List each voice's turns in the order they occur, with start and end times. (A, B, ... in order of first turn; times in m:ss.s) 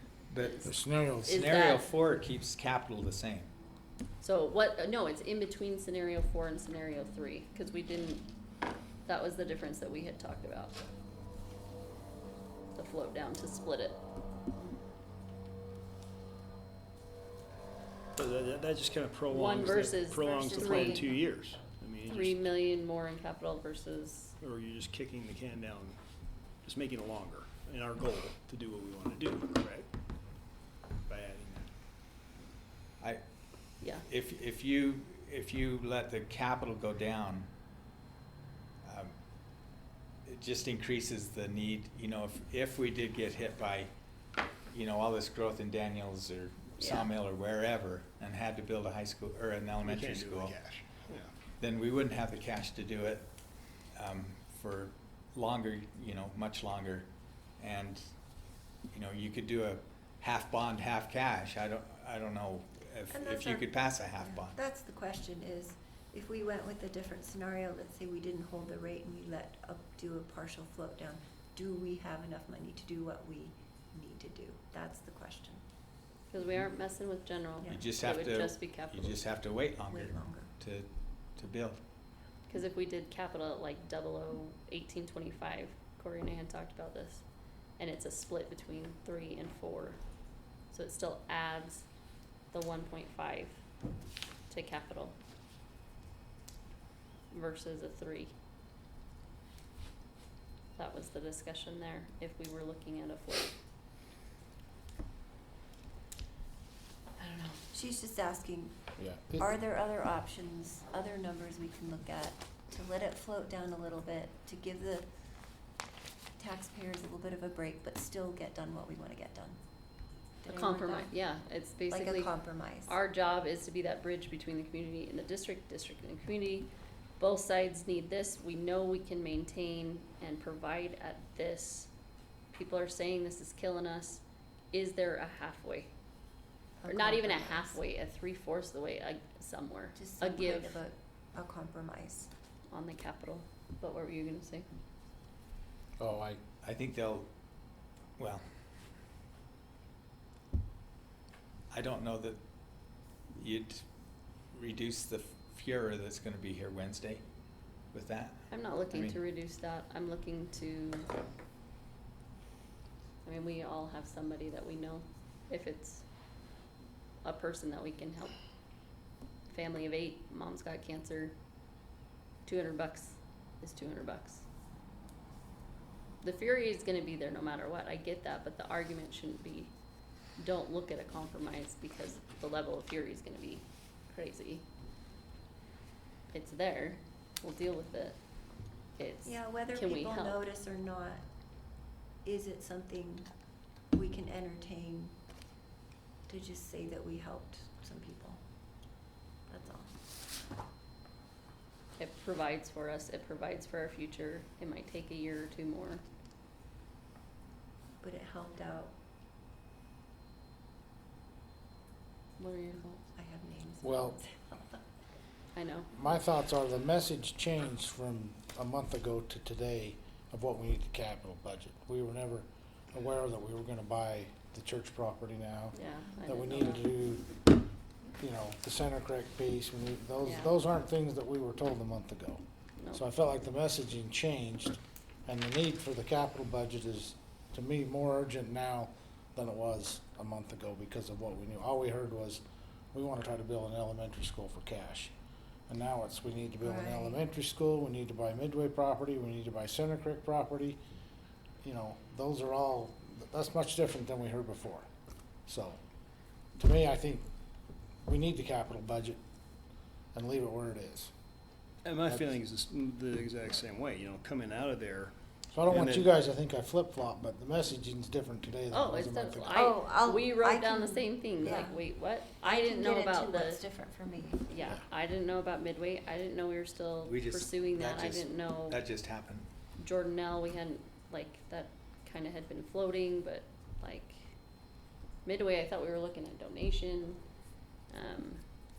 0:00.3-0:00.6 A
0:00.4-0:01.9 B
0:00.6-0:01.4 C
0:01.2-0:03.5 A
0:04.2-0:08.2 B
0:09.0-0:10.8 B
0:12.7-0:14.0 B
0:18.1-0:22.4 D
0:19.3-0:21.0 B
0:20.1-0:21.2 E
0:22.1-0:24.3 B
0:24.4-0:26.0 D
0:26.6-0:29.9 D
0:31.0-0:31.7 D
0:33.8-0:34.1 B
0:34.0-0:37.5 A
0:38.8-0:39.1 A
0:40.2-0:43.9 A
0:44.7-0:50.6 A
0:46.8-0:47.1 B
0:49.8-0:51.3 D
0:51.6-0:53.3 A
0:54.0-0:58.0 A
0:58.9-1:04.6 A
1:03.1-1:15.6 E
1:16.3-1:19.2 B
1:17.6-1:17.9 E
1:17.7-1:21.8 A
1:19.9-1:20.5 E
1:22.5-1:27.2 B
1:27.8-1:30.0 B
1:30.7-1:31.8 B
1:32.5-1:33.6 B
1:34.5-1:35.2 B
1:37.3-1:38.3 B
1:40.8-1:43.5 B
1:47.4-1:48.8 E
1:49.0-1:49.5 C
1:49.4-1:55.1 E
1:56.4-1:59.6 E
2:00.4-2:01.1 E
2:00.5-2:02.3 B
2:01.9-2:03.0 E
2:02.8-2:11.9 B
2:12.5-2:15.9 B
2:16.8-2:17.8 E
2:16.9-2:20.8 B
2:19.9-2:22.3 E
2:22.7-2:24.7 B
2:26.0-2:26.4 C
2:26.6-2:27.3 A
2:28.2-2:28.4 A
2:31.7-2:32.4 A
2:33.3-2:33.8 A
2:34.5-2:37.2 A
2:37.9-2:39.2 A
2:38.5-2:41.1 B
2:43.2-2:46.0 B
2:47.2-2:48.3 B
2:49.5-2:51.3 B
2:52.4-2:54.4 B
2:56.2-2:59.7 B
3:00.4-3:04.6 B
3:06.3-3:08.2 B
3:09.0-3:10.4 B
3:09.2-3:11.2 E
3:12.2-3:13.3 E
3:13.9-3:15.1 E
3:16.3-3:18.4 E
3:19.5-3:19.9 E
3:22.0-3:26.0 B
3:28.0-3:28.9 E
3:32.4-3:33.0 B
3:33.1-3:34.8 E
3:33.8-3:34.2 C
3:35.5-3:35.9 B
3:35.9-3:47.5 C
3:45.7-3:46.9 B
3:48.2-3:52.4 C
3:50.2-3:50.6 B
3:52.9-4:02.4 C
4:02.9-4:05.1 C
4:05.7-4:10.8 C
4:06.6-4:07.2 E
4:11.6-4:14.9 C
4:15.5-4:15.8 C
4:16.6-4:17.3 C
4:18.0-4:19.2 C
4:20.1-4:21.1 C
4:21.8-4:25.1 D
4:25.5-4:29.6 C
4:25.7-4:26.1 D
4:28.7-4:33.6 B
4:29.5-4:31.8 E
4:32.4-4:34.5 E
4:34.5-4:38.8 B
4:37.0-4:39.5 A
4:39.8-4:44.3 B
4:45.2-4:47.2 B
4:47.9-4:48.4 B